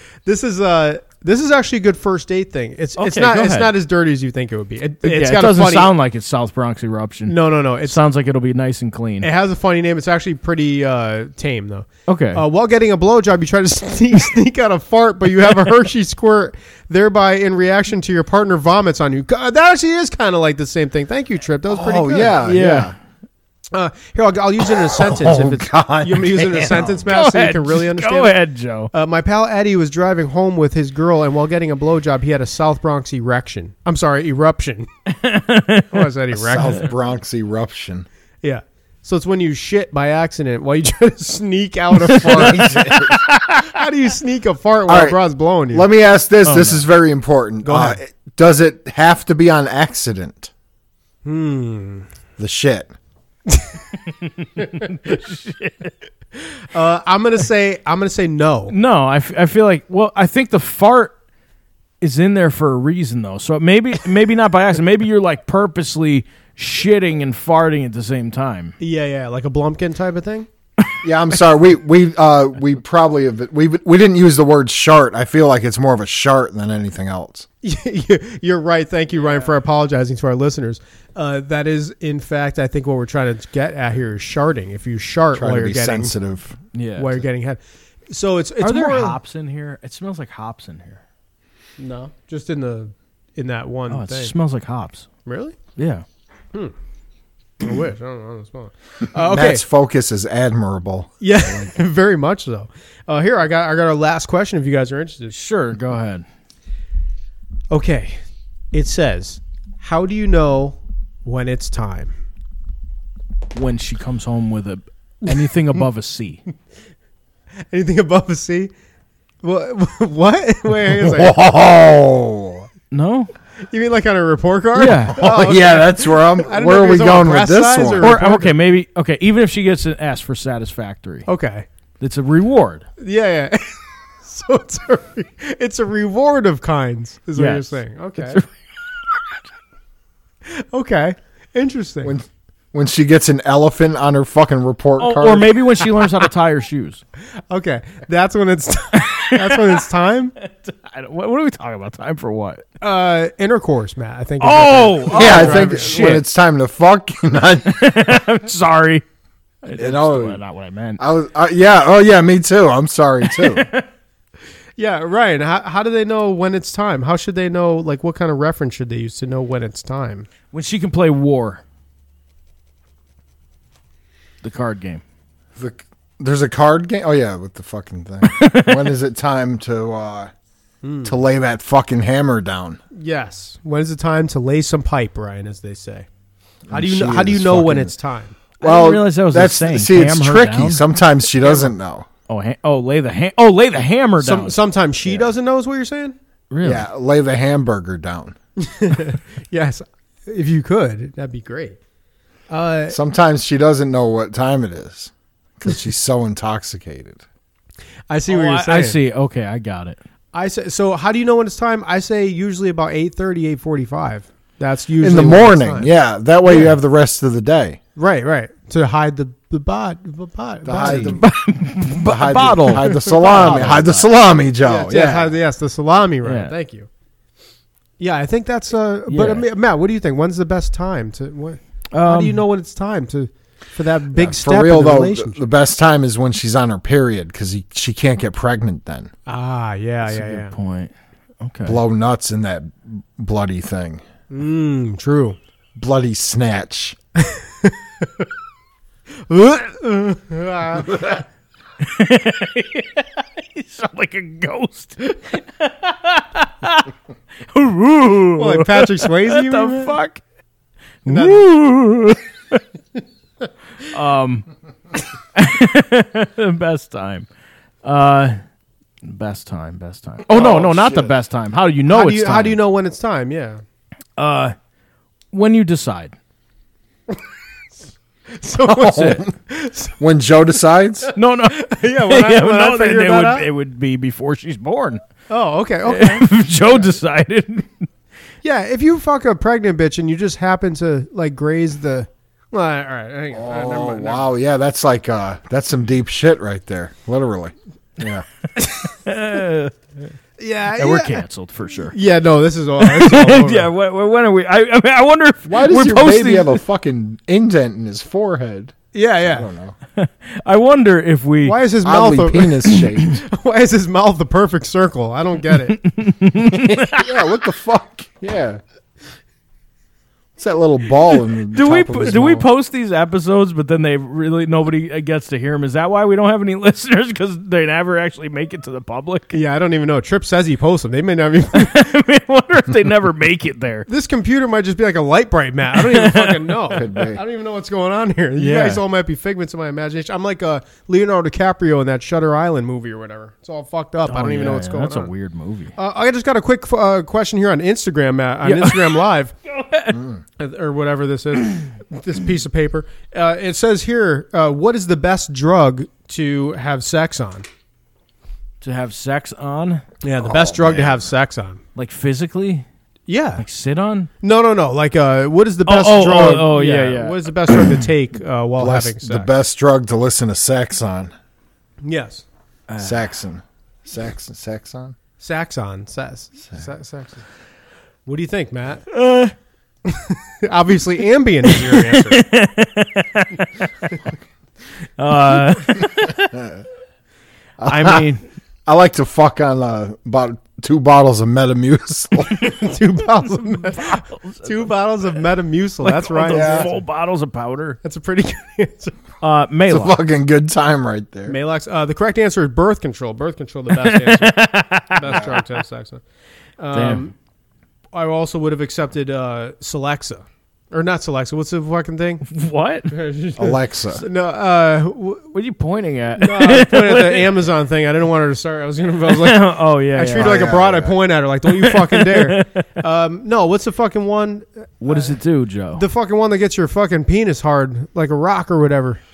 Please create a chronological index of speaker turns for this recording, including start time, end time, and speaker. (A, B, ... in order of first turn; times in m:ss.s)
0:00.2-0:05.9 A
0:03.0-0:03.7 B
0:05.0-0:09.3 B
0:07.3-0:08.0 A
0:09.2-0:22.4 A
0:12.1-0:12.4 B
0:21.6-0:22.9 C
0:22.4-0:22.9 B
0:23.7-0:28.4 A
0:24.7-0:27.0 C
0:27.1-0:28.9 B
0:28.9-0:34.9 A
0:35.1-0:36.1 B
0:35.9-0:36.9 A
0:36.4-0:38.1 C
0:38.4-0:43.0 A
0:42.1-0:43.2 C
0:42.2-0:43.7 B
0:43.5-0:45.9 A
0:44.9-0:45.2 C
0:45.7-0:50.5 C
0:46.4-0:46.8 B
0:47.6-0:48.0 A
0:51.2-0:52.0 A
0:52.4-0:52.9 C
0:53.5-0:53.8 A
0:54.2-0:55.9 B
0:54.6-0:55.1 A
0:56.4-0:58.7 A
0:58.7-1:01.1 B
1:02.0-1:08.7 B
1:08.8-1:10.5 A
1:11.0-1:17.5 C
1:17.6-1:26.1 A
1:25.3-1:26.6 C
1:26.7-1:27.2 B
1:27.0-1:29.2 A
1:28.6-1:31.0 B
1:31.8-1:34.3 A
1:33.9-1:35.1 B
1:35.2-1:35.6 A
1:35.8-1:36.0 B
1:37.6-1:39.6 A
1:39.1-1:41.6 C
1:41.2-1:45.4 A
1:45.3-1:46.2 B
1:47.7-1:48.2 A
1:48.7-1:52.1 A
1:53.5-1:56.4 B
1:57.7-1:58.7 A
1:59.4-2:01.3 A
2:00.9-2:02.7 C
2:02.9-2:03.3 B
2:03.7-2:08.5 A
2:04.7-2:05.2 B
2:05.0-2:08.1 C
2:08.0-2:11.3 B
2:11.2-2:11.7 A
2:12.0-2:12.8 B
2:13.0-2:18.4 A
2:17.4-2:18.5 B
2:20.4-2:22.1 A
2:22.0-2:25.5 C
2:25.0-2:27.0 B
2:27.5-2:30.3 A
2:29.0-2:29.8 B
2:30.4-2:32.6 B
2:32.8-2:36.2 A
2:34.4-2:36.2 B
2:35.1-2:38.1 C
2:37.6-2:39.0 B
2:39.6-2:41.0 B
2:39.7-2:40.4 C
2:41.0-2:43.7 C
2:43.2-2:43.8 B
2:44.8-2:50.3 A
2:50.5-2:51.6 B
2:54.4-2:55.0 B
2:55.6-3:00.3 C
2:58.2-2:58.9 B
3:00.8-3:01.2 A
3:01.0-3:02.8 C
3:02.9-3:06.1 A
3:06.7-3:07.9 C
3:06.7-3:08.4 A
3:08.6-3:10.8 B
3:08.6-3:12.1 C
3:11.4-3:11.7 A
3:12.3-3:14.6 B
3:14.2-3:16.2 A
3:16.5-3:16.8 B
3:16.6-3:18.4 C
3:18.6-3:21.8 A
3:22.5-3:23.0 A
3:22.9-3:27.2 C
3:28.1-3:29.0 A
3:28.3-3:30.0 B
3:30.3-3:35.9 A
3:35.0-3:37.8 C
3:36.5-3:36.7 A
3:38.0-3:41.2 A
3:40.6-3:41.3 C
3:40.8-3:44.1 B
3:42.0-3:45.3 C
3:42.9-3:43.7 A
3:44.6-3:46.9 A
3:46.2-3:46.5 B
3:48.0-3:55.4 A
3:49.1-3:49.4 B
3:51.9-3:52.4 B
3:54.1-3:59.1 C
3:59.2-4:00.5 A
4:00.0-4:01.8 B
4:01.6-4:04.0 C
4:04.3-4:05.4 A
4:05.8-4:07.0 C
4:07.2-4:08.2 A
4:09.3-4:11.2 A
4:11.8-4:16.9 B
4:17.5-4:20.2 B
4:18.3-4:19.9 A
4:21.0-4:22.6 B
4:21.1-4:21.5 A
4:23.8-4:24.5 B
4:25.3-4:27.2 B
4:27.8-4:28.4 B
4:29.0-4:32.6 B
4:30.3-4:31.1 C
4:31.9-4:33.6 A
4:34.2-4:34.5 B
4:35.3-4:36.1 B
4:38.3-4:40.0 A
4:38.7-4:39.3 C
4:40.0-4:41.1 C
4:41.1-4:43.5 A
4:41.2-4:45.0 B
4:45.3-4:46.8 A
4:45.8-4:47.8 B
4:48.4-4:54.3 A
4:53.3-4:58.2 C
4:58.8-4:59.8 B
5:00.4-5:01.2 A
5:00.8-5:01.9 B
5:01.9-5:03.7 A
5:02.8-5:06.6 B
5:05.4-5:09.8 C
5:08.9-5:09.5 A
5:10.0-5:11.6 B
5:11.4-5:15.8 A
5:11.8-5:13.2 C
5:15.7-5:17.2 B
5:16.4-5:18.6 C
5:20.4-5:22.4 C
5:21.5-5:29.4 B
5:29.3-5:31.9 A
5:31.5-5:33.9 B
5:33.9-5:45.1 A
5:35.8-5:36.8 B
5:36.7-5:37.2 C
5:38.4-5:38.8 B
5:44.1-5:45.7 B
5:45.8-5:49.3 A
5:48.4-5:50.0 B
5:50.4-5:57.4 A
5:58.6-5:59.8 B
6:00.0-6:01.6 A
6:00.2-6:01.0 C
6:01.8-6:02.6 B
6:03.1-6:03.4 A
6:03.4-6:04.1 B
6:04.2-6:09.3 A
6:05.7-6:07.3 B
6:08.6-6:11.1 C
6:11.8-6:12.2 A
6:12.7-6:13.0 B
6:12.8-6:15.0 C
6:15.2-6:17.2 A
6:18.0-6:18.8 A
6:18.9-6:19.3 B
6:19.8-6:22.2 A
6:21.9-6:23.7 B
6:25.0-6:26.4 B
6:27.6-6:28.0 C
6:27.6-6:28.2 B
6:28.6-6:32.5 C
6:32.3-6:36.7 A
6:33.7-6:34.7 B
6:35.8-6:37.8 B
6:36.3-6:36.7 C
6:37.8-6:39.0 A
6:39.2-6:40.0 B
6:39.7-6:41.4 C
6:41.3-6:46.0 A
6:43.7-6:45.4 B
6:45.1-6:45.3 C
6:46.6-6:47.1 A
6:46.7-6:47.1 B
6:47.9-6:52.2 A
6:52.3-6:52.9 B
6:52.9-6:55.3 A
6:53.4-6:54.0 C
6:55.3-6:57.3 B
6:56.2-7:05.2 A
6:59.0-7:00.4 B
7:00.2-7:00.9 C
7:01.5-7:02.7 B
7:04.8-7:05.8 B
7:05.7-7:09.0 A